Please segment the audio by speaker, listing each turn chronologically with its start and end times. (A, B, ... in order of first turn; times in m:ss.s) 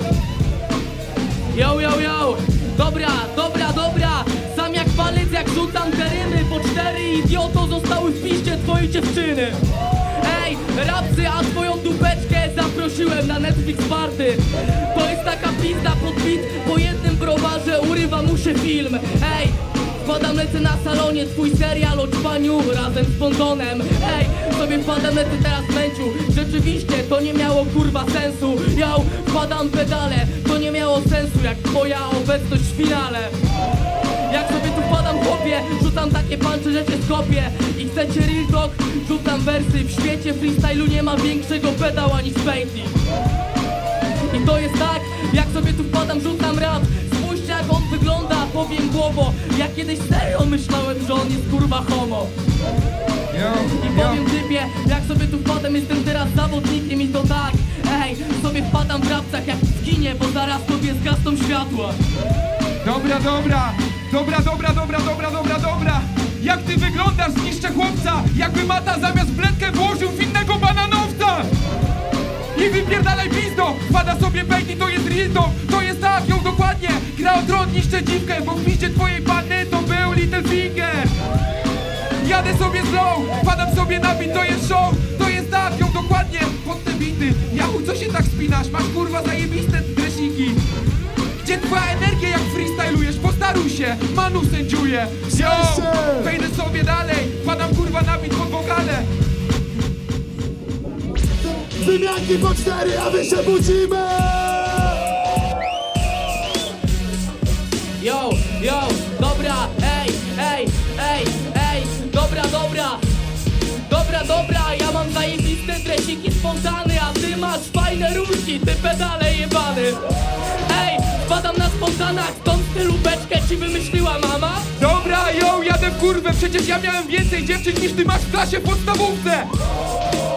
0:01.5-0:09.6 A
0:10.1-0:33.4 A
0:34.3-0:43.0 A
0:44.3-0:52.3 A
0:53.3-0:54.2 B
0:53.6-1:02.0 A
1:02.8-1:11.5 B
1:12.5-1:21.1 B
1:22.2-1:30.6 B
1:31.4-1:39.1 B
1:35.2-1:36.3 C
1:41.4-1:45.0 C
1:48.0-1:53.0 A
1:53.8-2:00.0 A
2:00.7-2:04.7 A
2:04.8-2:09.5 B